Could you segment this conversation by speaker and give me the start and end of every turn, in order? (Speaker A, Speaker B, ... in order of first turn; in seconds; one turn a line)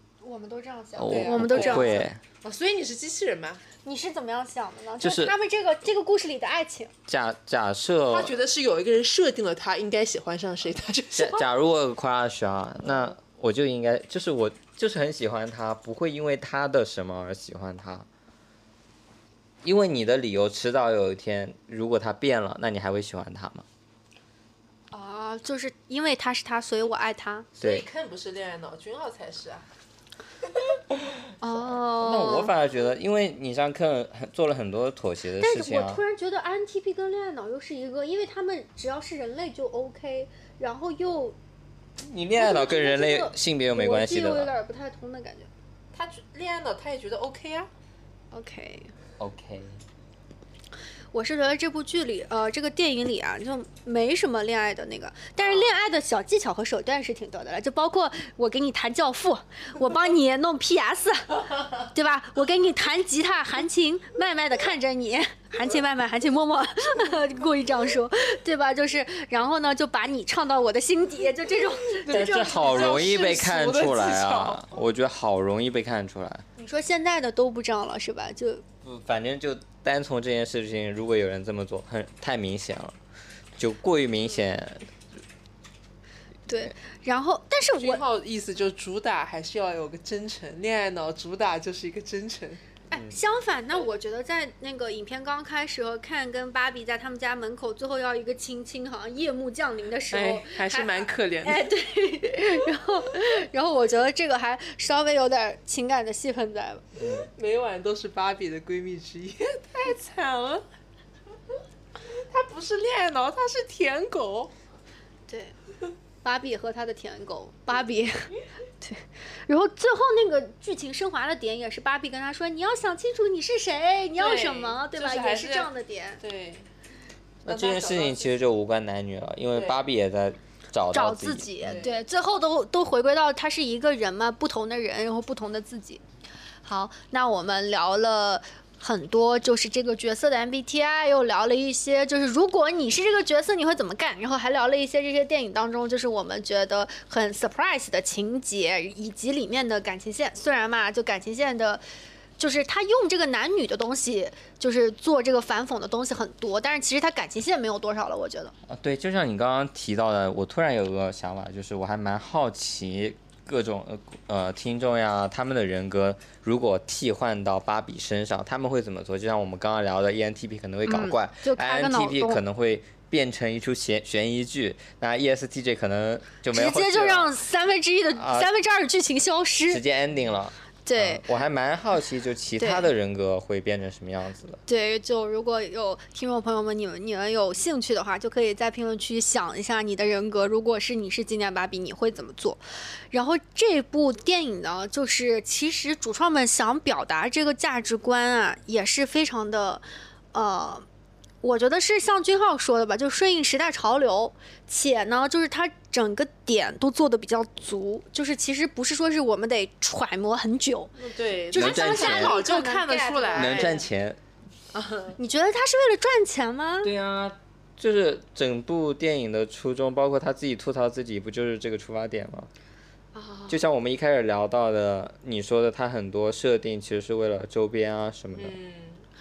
Speaker A: 0.2-2.0
Speaker B: 0.9-2.2
Speaker C: 1.1-3.6
Speaker A: 3.8-6.9
Speaker B: 5.0-5.3
Speaker B: 7.1-8.3
Speaker C: 8.1-11.4
Speaker B: 11.2-18.1
Speaker B: 19.6-23.6
Speaker A: 24.9-27.5
Speaker C: 27.6-29.6
Speaker B: 27.6-27.9
Speaker A: 31.4-32.5
Speaker B: 32.0-36.0
Speaker A: 35.4-41.4
Speaker B: 42.0-44.5
Speaker A: 42.4-45.5
Speaker C: 45.9-47.7
Speaker A: 48.3-48.9
Speaker B: 49.2-49.8
Speaker A: 51.1-73.0
Speaker C: 71.9-74.6
Speaker B: 72.1-76.4
Speaker A: 76.6-78.7
Speaker B: 78.8-83.0
Speaker B: 83.6-84.9
Speaker A: 86.5-88.0
Speaker C: 87.8-92.6
Speaker A: 92.9-106.8
Speaker C: 100.1-101.7
Speaker B: 107.0-107.3
Speaker C: 107.0-110.6
Speaker C: 112.1-114.5
Speaker A: 115.3-115.5
Speaker A: 116.2-126.2
Speaker C: 124.2-125.7
Speaker C: 126.2-126.7
Speaker B: 127.4-131.8
Speaker C: 127.5-128.3
Speaker C: 129.5-129.8
Speaker A: 130.9-136.0
Speaker C: 131.7-131.9
Speaker A: 136.7-151.8
Speaker A: 152.4-158.5
Speaker B: 158.7-177.3
Speaker A: 170.9-172.4
Speaker A: 176.5-179.8
Speaker B: 178.2-178.5
Speaker B: 179.7-184.6
Speaker A: 180.8-181.2
Speaker A: 182.6-182.9
Speaker A: 184.7-200.8
Speaker A: 201.4-211.0
Speaker C: 211.0-213.8
Speaker A: 211.5-213.8
Speaker B: 211.5-212.4
Speaker B: 213.3-214.2
Speaker C: 214.7-215.2
Speaker A: 215.2-216.9
Speaker B: 216.8-222.5
Speaker A: 223.1-223.6
Speaker B: 223.5-228.6
Speaker C: 228.3-229.0